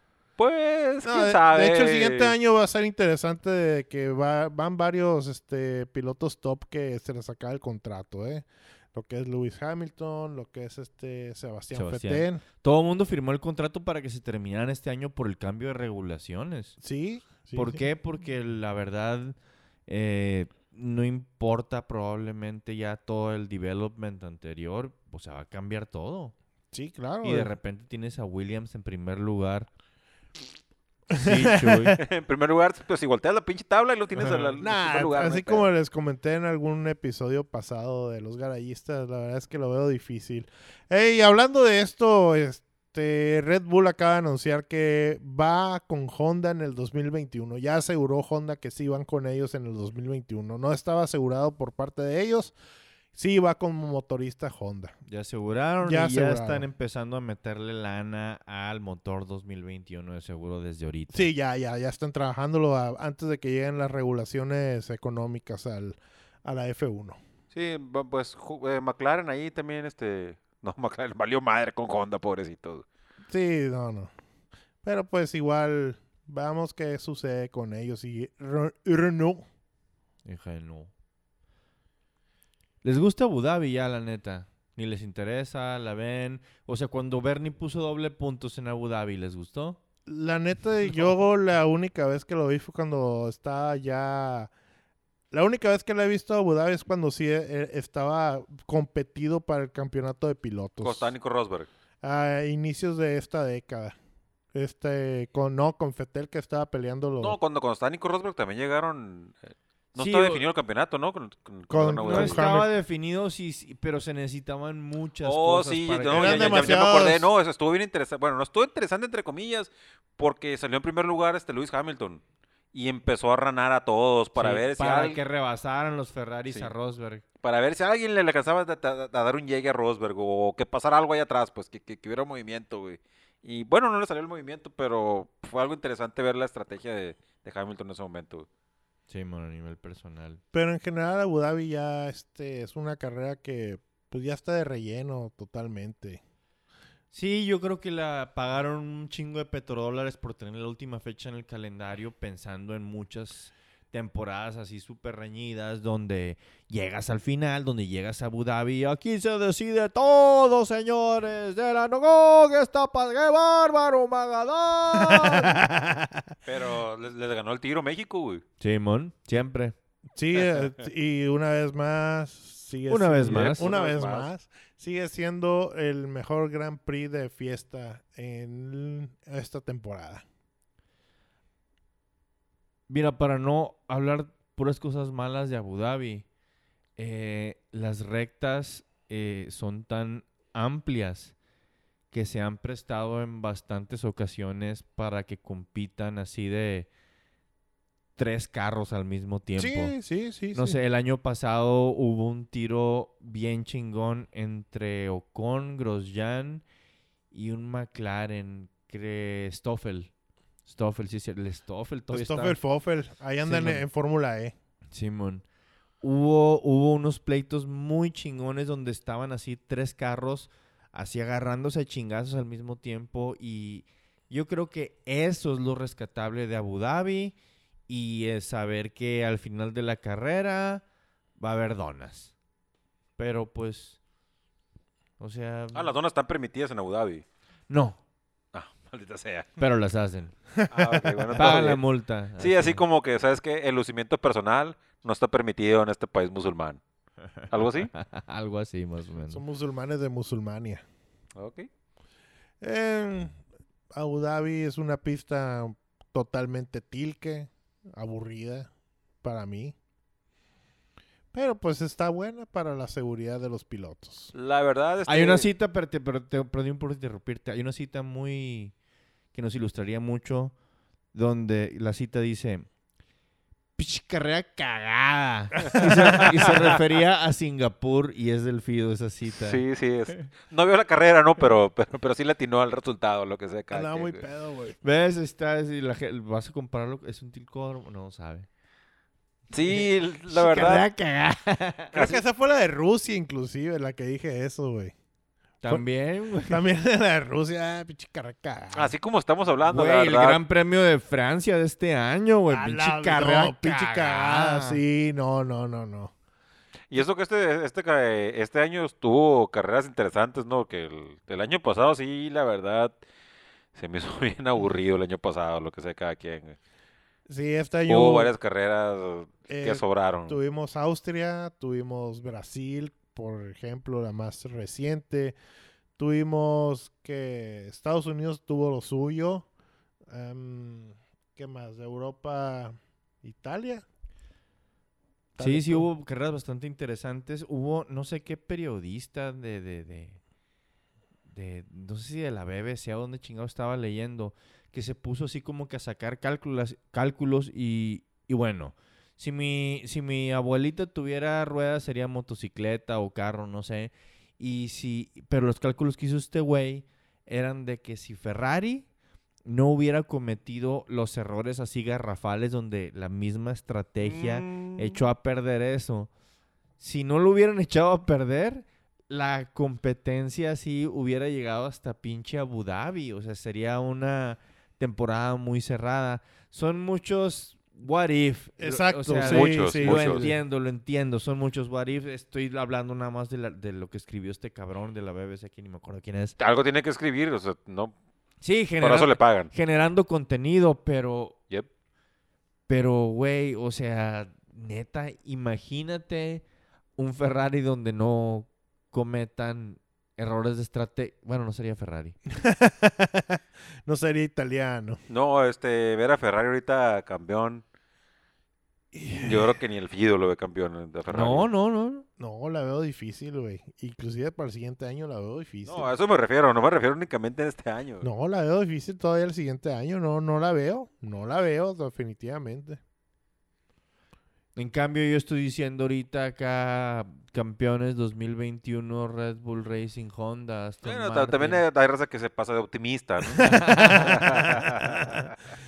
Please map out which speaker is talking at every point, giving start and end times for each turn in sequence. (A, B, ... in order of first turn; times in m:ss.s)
0:00.4-0:02.3 A
0:01.0-0:12.4 B
0:11.7-0:16.8 C
0:16.8-0:17.8 B
0:17.5-0:19.4 C
0:19.9-0:26.3 C
0:26.7-0:27.5 B
0:27.2-0:29.7 C
0:31.1-0:31.9 B
0:31.2-0:32.0 C
0:32.0-0:35.7 A
0:34.2-0:52.5 B
0:53.1-0:54.9 B
0:55.1-1:01.3 C
0:55.8-0:56.7 B
1:01.1-1:07.2 B
1:07.5-1:12.8 A
1:13.3-1:14.1 B
1:14.8-1:19.4 B
1:20.2-1:20.9 C
1:22.8-1:29.8 C
1:30.1-1:34.5 B
1:35.3-1:41.1 B
1:40.8-1:41.7 A
1:42.0-1:44.0 B
1:44.5-1:47.4 B
1:47.2-1:52.5 A
1:50.0-1:50.4 C
1:51.7-1:52.7 B
1:52.0-1:56.8 C
1:55.2-2:02.2 A
1:56.1-1:57.3 B
2:02.7-2:05.2 A
2:04.4-2:07.2 C
2:07.4-2:18.5 A
2:19.1-2:20.4 C
2:20.5-2:26.2 B
2:27.1-2:45.6 C
2:44.9-2:46.3 B
2:46.4-2:48.4 A
2:48.6-2:49.7 C
2:50.2-3:00.2 B
2:52.9-2:53.7 C
2:53.2-2:54.3 A
3:02.9-3:06.2 C
3:07.0-3:11.3 C
3:12.1-3:16.9 C
3:18.2-3:19.9 C
3:19.6-3:20.8 B
3:20.5-3:26.6 C
3:27.3-3:30.1 C
3:30.6-3:32.6 C
3:32.1-3:34.5 B
3:33.4-3:33.8 C
3:34.9-3:35.4 C
3:36.0-3:47.3 C
3:47.9-3:50.8 C
3:51.4-3:52.3 C
3:53.2-3:54.0 C
3:55.2-3:55.9 C
3:55.7-3:57.2 A
3:57.7-3:58.0 C
3:58.5-3:59.5 A
3:59.6-4:00.3 C
4:00.6-4:01.6 B
4:00.7-4:01.8 A
4:01.3-4:02.8 C
4:02.4-4:06.8 A
4:07.5-4:07.9 A
4:07.8-4:09.4 C
4:09.3-4:10.8 B
4:11.4-4:11.7 A
4:12.6-4:13.4 B
4:13.9-4:18.7 B
4:19.2-4:19.8 B
4:21.3-4:24.3 B
4:24.3-4:25.5 A
4:25.1-4:28.7 C
4:29.3-4:30.5 C
4:31.1-4:32.7 C
4:33.8-4:39.6 C
4:35.7-4:36.3 B
4:39.3-4:44.2 A
4:43.7-4:44.8 B
4:44.8-4:48.5 C
4:49.5-4:50.8 A
4:50.3-4:51.9 C
4:51.9-4:52.2 A
4:51.9-4:54.9 B
4:55.6-4:56.6 C
4:56.5-4:58.9 B
4:58.7-5:00.4 A
4:59.6-5:04.8 C
5:02.5-5:06.1 B
5:06.9-5:12.9 A
5:13.7-5:16.6 A
5:17.3-5:18.3 B
5:17.9-5:20.4 A
5:19.5-5:25.4 B
5:26.0-5:29.4 B
5:30.1-5:33.8 B
5:35.3-5:35.9 B
5:35.4-5:40.2 C
5:41.3-5:58.8 C
5:59.4-6:06.1 C
6:04.0-6:05.0 A
6:06.8-6:26.4 C
6:18.6-6:20.4 B
6:19.2-6:20.3 A
6:26.4-6:27.9 A
6:28.4-6:31.4 C
6:28.8-6:29.5 A
6:32.7-6:36.4 C
6:37.0-6:42.2 C
6:42.4-6:45.0 B
6:45.1-6:47.6 A
6:48.9-6:49.5 B
6:49.2-6:51.5 A
6:51.1-6:52.0 C
6:52.2-6:55.9 B
6:55.6-6:58.1 A
6:58.0-7:02.8 B
7:04.6-7:11.6 C
7:10.8-7:15.3 A
7:13.4-7:15.3 B
7:13.4-7:14.1 C